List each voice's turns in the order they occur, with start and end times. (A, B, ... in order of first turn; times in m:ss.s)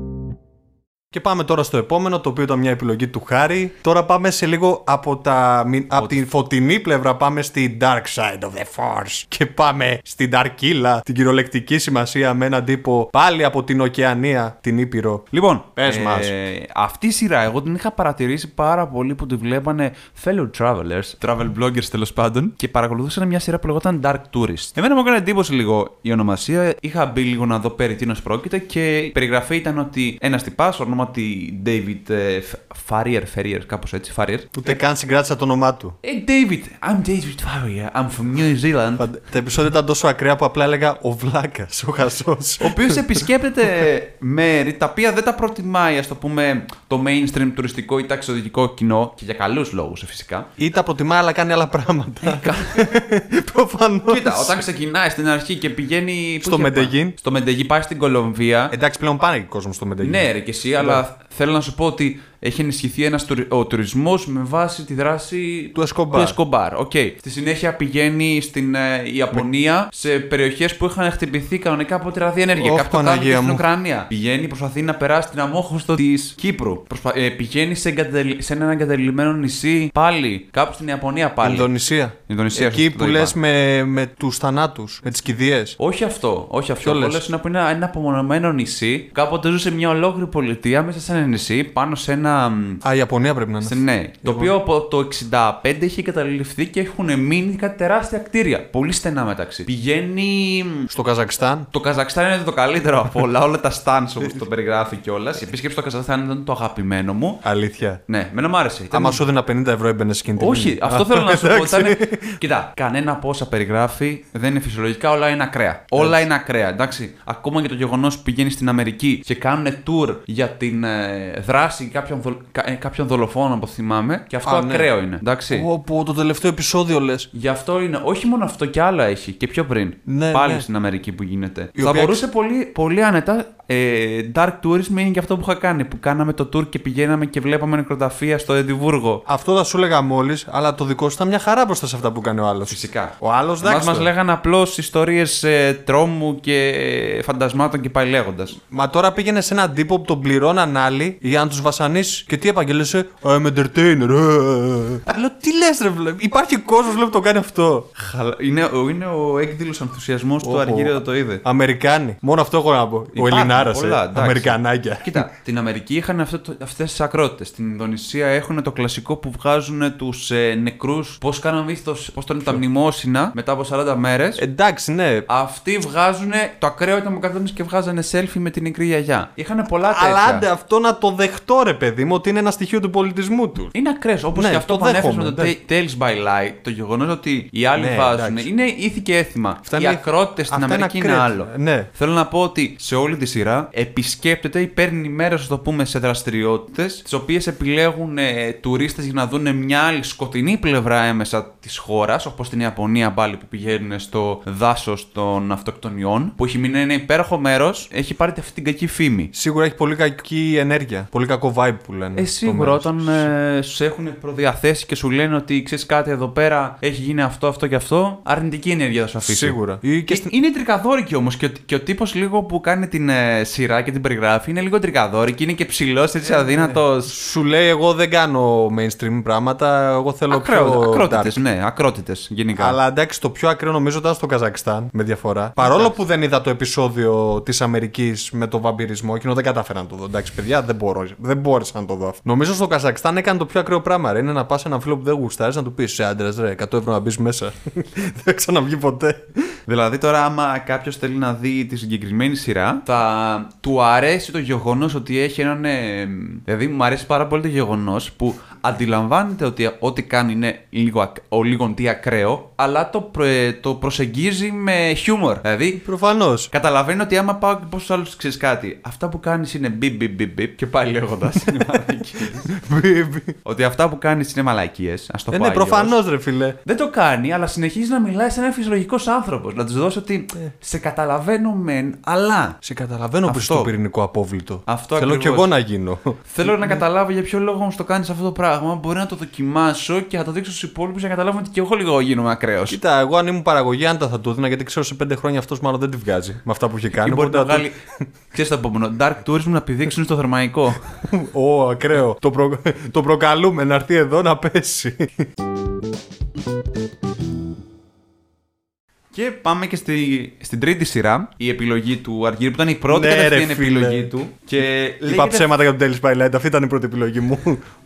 0:01.1-0:16.3 A
0:05.9-0:06.2 B
0:15.3-0:34.8 B
0:34.5-0:36.0 A
0:36.0-0:39.0 B
0:39.0-0:43.3 A
0:42.6-0:50.5 B
0:50.6-0:54.6 A
0:52.2-0:52.9 B
0:54.0-0:58.7 B
0:56.4-0:57.2 A
0:58.7-1:01.0 A
1:00.0-1:21.7 B
1:05.7-1:06.4 A
1:12.6-1:13.6 A
1:21.4-1:25.8 A
1:22.3-1:23.3 B
1:25.8-1:32.8 B
1:26.8-1:27.2 A
1:32.8-1:34.6 A
1:33.6-1:40.9 B
1:40.9-1:41.7 A
1:41.7-1:47.4 B
1:47.4-1:48.0 A
1:48.1-1:49.2 B
1:48.9-1:52.4 A
1:50.4-2:05.7 B
1:56.0-1:56.2 A
2:04.4-2:04.9 A
2:05.5-2:07.3 A
2:07.3-2:19.2 B
2:10.1-2:10.6 A
2:11.8-2:12.2 A
2:19.2-2:24.1 A
2:22.7-2:28.6 B
2:28.7-2:37.9 A
2:38.0-2:41.4 B
2:40.4-2:45.3 A
2:43.1-2:54.4 B
2:54.4-2:55.3 A
2:55.3-3:00.4 B
2:59.9-3:03.7 A
3:03.7-3:29.3 B
3:04.3-3:05.5 A
3:07.8-3:08.5 A
3:09.6-3:11.9 A
3:29.3-3:33.3 A
3:32.1-3:47.1 B
3:39.2-3:40.3 A
3:46.2-3:51.4 A
3:50.3-3:52.8 B
3:52.5-4:09.6 A
3:55.6-3:56.0 B
4:09.7-4:25.8 B
4:25.8-4:26.5 A
4:26.5-4:32.5 B
4:31.6-4:33.4 A
4:33.4-4:36.0 B
4:35.3-4:36.6 A
4:36.6-4:42.6 B
4:42.6-4:46.8 A
4:43.2-4:43.7 B
4:44.7-4:45.5 B
4:46.3-4:52.8 B
4:52.7-4:58.0 A
4:56.9-4:57.8 B
4:58.3-5:00.8 B
5:01.1-5:05.3 A
5:09.1-5:15.5 B
5:12.9-5:14.1 A
5:15.0-5:17.6 A